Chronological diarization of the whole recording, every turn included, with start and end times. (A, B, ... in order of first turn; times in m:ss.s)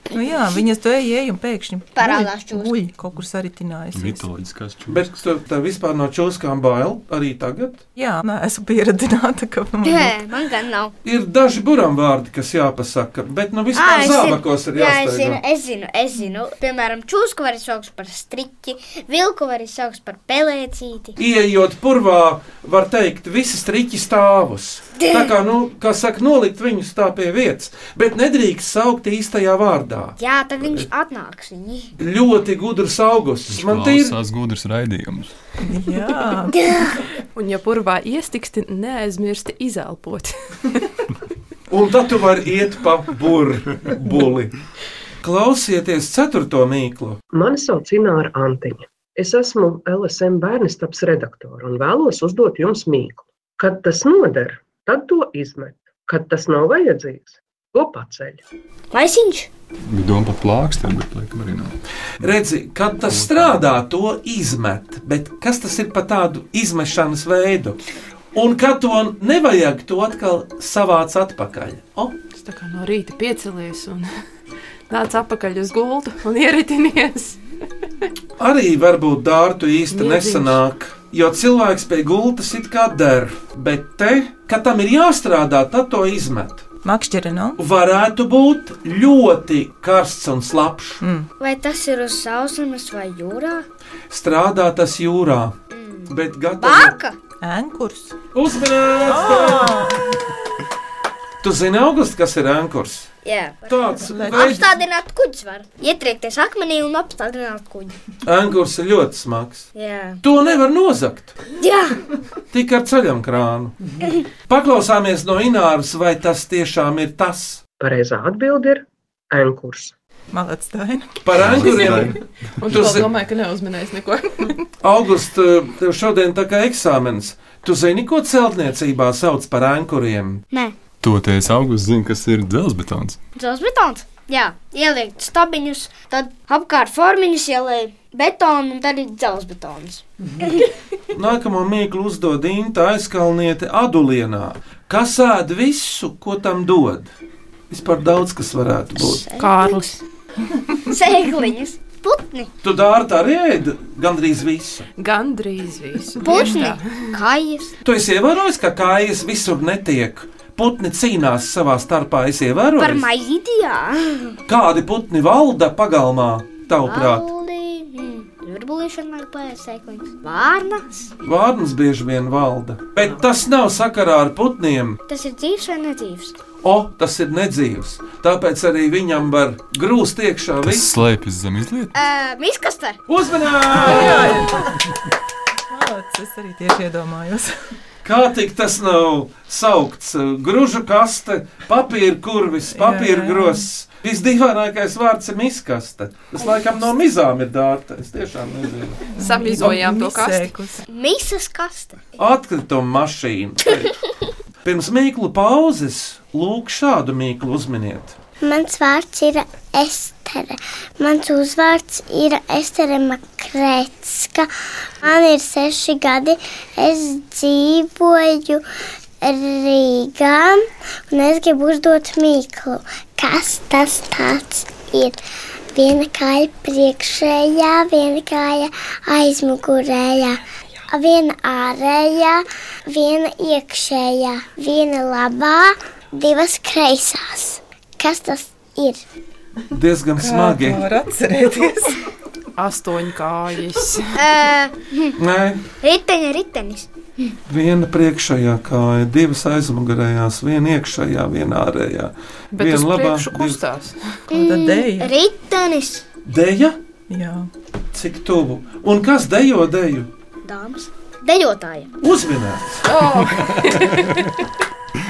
0:00.1-0:04.2 A
0:02.0-0:02.7 B
0:03.9-0:05.1 C
0:04.9-0:07.8 D
0:08.0-0:10.1 A
0:09.8-0:10.9 B
0:11.0-0:15.4 D
0:13.8-0:21.2 B
0:21.2-0:30.9 D
0:25.0-0:25.3 B
0:30.2-0:31.9 B
0:32.0-0:34.2 D
0:33.5-0:35.3 C
0:35.6-0:36.6 A
0:36.6-0:36.9 B
0:37.4-0:40.9 E
0:41.7-0:44.5 D
0:45.2-0:47.2 D
0:47.3-0:58.4 F
0:58.9-0:59.5 B
0:59.9-1:01.8 C
1:02.2-1:07.8 D
1:03.1-1:03.6 C
1:08.3-1:12.2 D
1:12.4-1:14.1 E
1:14.9-1:17.4 E
1:18.4-1:26.6 D
1:19.9-1:20.6 E
1:26.8-1:27.6 A
1:27.6-1:31.0 D
1:31.0-1:31.3 A
1:31.4-1:33.7 B
1:34.1-1:35.6 D
1:35.7-1:37.2 B
1:36.1-1:37.0 D
1:37.4-1:38.2 A
1:38.3-1:39.9 D
1:39.0-1:40.1 A
1:41.4-1:43.1 D
1:43.2-1:43.7 B
1:43.7-1:44.7 D
1:44.0-1:44.6 A
1:44.3-1:48.0 B
1:48.2-1:49.7 D
1:49.8-1:50.2 B
1:50.2-1:51.4 D
1:51.6-1:52.0 B
1:52.5-1:53.8 D
1:54.5-1:57.6 D
1:57.8-1:59.9 F
2:00.3-2:01.3 A
2:01.2-2:03.1 D
2:01.3-2:03.1 C
2:01.6-2:04.6 E
2:04.8-2:10.4 D
2:11.0-2:13.2 C
2:13.4-2:20.7 B
2:21.1-2:27.1 D
2:27.7-2:29.3 D
2:29.3-2:30.0 B
2:29.3-2:30.0 E
2:30.7-2:32.5 B
2:32.6-2:34.9 D
2:35.0-2:37.2 E
2:36.2-2:37.8 B
2:37.8-2:43.1 D
2:42.8-2:44.4 B
2:44.5-2:47.3 D
2:46.9-2:51.1 B
2:51.2-2:55.0 D
2:55.1-2:56.4 B
2:56.6-3:00.9 D
3:00.6-3:01.9 C
3:01.9-3:03.0 B
3:03.1-3:04.5 D
3:03.8-3:04.8 A
3:05.7-3:07.6 A
3:08.0-3:19.1 D
3:12.7-3:13.7 A
3:19.2-3:20.5 E
3:19.2-3:20.8 A
3:20.9-3:22.0 B
3:22.2-3:23.9 D
3:24.6-3:28.2 D
3:28.4-3:34.5 G
3:35.0-3:38.6 G
3:39.2-3:45.2 G
3:45.7-3:50.4 G
3:50.9-3:59.0 G
3:59.7-4:00.8 D
4:00.2-4:02.0 A
4:02.6-4:04.2 E
4:04.2-4:05.2 B
4:05.2-4:05.6 D
4:05.8-4:07.4 B
4:07.5-4:13.6 D
4:12.5-4:14.2 E
4:14.3-4:15.1 A
4:14.3-4:16.1 B
4:16.3-4:16.8 D
4:17.1-4:17.5 A
4:17.9-4:20.1 D
4:20.4-4:21.9 B
4:22.0-4:23.0 D
4:22.9-4:24.1 E